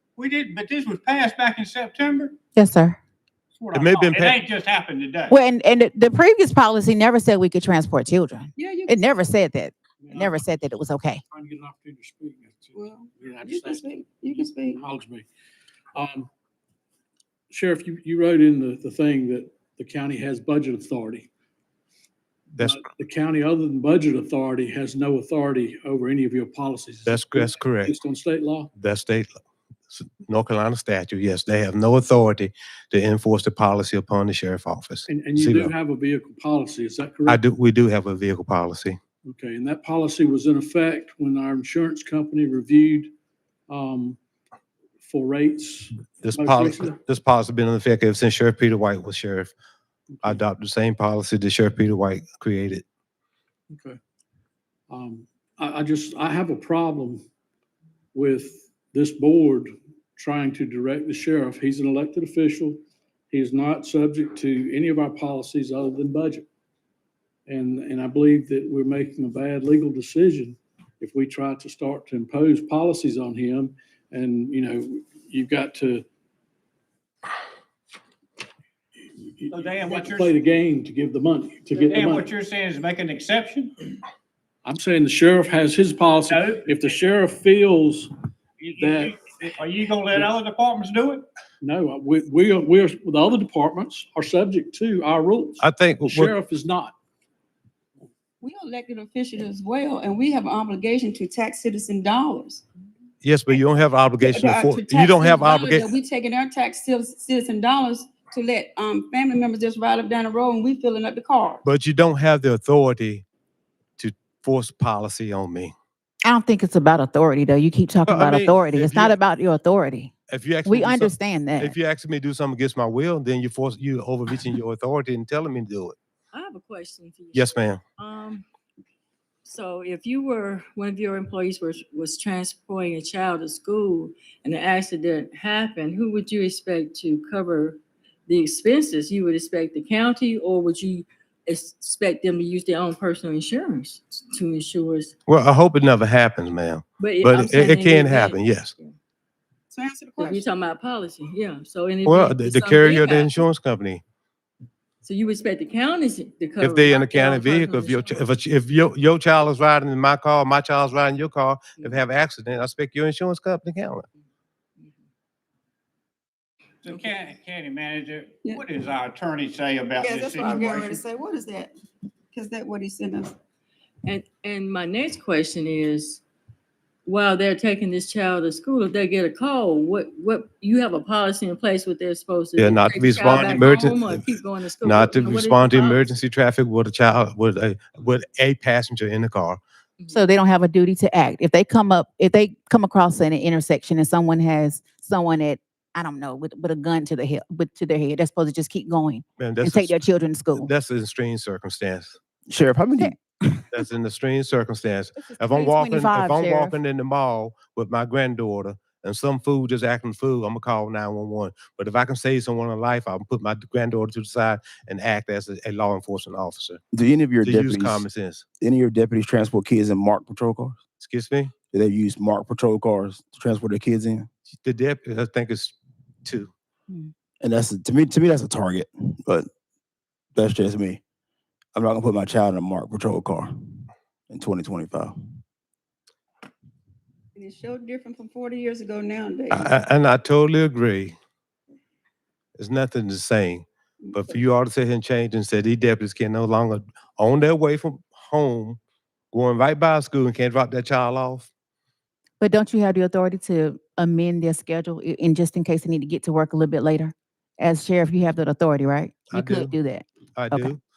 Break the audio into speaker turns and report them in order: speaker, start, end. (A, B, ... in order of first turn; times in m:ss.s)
0:00.2-0:02.4 A
0:02.6-0:03.0 B
0:03.6-0:05.4 A
0:03.7-0:04.4 C
0:05.3-0:11.2 B
0:08.6-0:09.1 D
0:10.0-0:10.8 E
0:11.3-0:15.3 E
0:12.7-0:14.8 D
0:15.9-0:16.3 E
0:17.5-0:21.3 E
0:22.6-0:28.7 E
0:27.0-0:28.0 C
0:28.8-0:29.3 C
0:29.9-0:35.7 C
0:35.1-0:37.4 E
0:37.2-0:39.0 C
0:39.2-0:43.1 E
0:43.7-0:44.2 E
0:45.0-0:47.0 E
0:46.2-0:49.5 C
0:50.1-0:50.4 E
0:50.2-0:52.8 C
0:53.7-0:54.0 E
0:54.9-0:57.2 E
0:58.1-1:06.4 E
1:07.5-1:16.0 E
1:19.2-1:22.3 E
1:19.5-1:20.4 A
1:21.7-1:22.2 F
1:21.9-1:24.0 A
1:24.6-1:28.1 E
1:26.2-1:27.0 A
1:28.6-1:31.3 A
1:28.8-1:29.1 E
1:31.6-1:36.9 E
1:35.6-1:36.3 C
1:38.4-1:42.6 D
1:43.2-1:45.9 C
1:44.2-1:51.6 D
1:51.6-1:53.2 C
1:54.0-1:55.7 C
1:56.2-2:00.1 B
1:58.1-1:59.1 C
2:00.3-2:06.0 C
2:00.6-2:01.7 B
2:06.3-2:08.4 F
2:07.3-2:07.8 C
2:09.4-2:25.1 F
2:25.3-2:28.7 C
2:27.0-2:29.0 F
2:29.7-2:30.4 D
2:30.2-2:33.5 F
2:32.0-2:34.0 C
2:35.0-2:38.3 F
2:36.6-2:44.0 C
2:46.8-2:51.0 A
2:50.0-2:51.7 D
2:52.3-2:53.3 D
2:54.0-2:56.2 F
2:57.0-3:06.2 F
3:02.6-3:04.2 C
3:03.3-3:03.7 A
3:04.8-3:09.6 C
3:10.0-3:10.3 F
3:10.1-3:20.7 B
3:19.4-3:20.0 C
3:20.6-3:22.2 C
3:22.5-3:23.1 G
3:23.0-3:23.6 B
3:23.7-3:36.8 C
3:25.2-3:26.8 B
3:36.9-3:38.0 G
3:37.4-3:38.4 C
3:38.6-3:40.8 G
3:41.0-3:41.5 C
3:41.7-3:44.3 G
3:44.5-3:46.5 C
3:47.4-3:49.5 G
3:50.3-3:51.0 G
3:51.7-3:53.5 G
3:54.3-3:55.1 G
3:57.3-3:59.8 D
3:59.5-4:01.1 C
4:02.6-4:08.8 C
4:04.0-4:04.4 D
4:09.3-4:11.5 C
4:12.4-4:20.7 B
4:19.3-4:19.8 C
4:20.4-4:20.8 C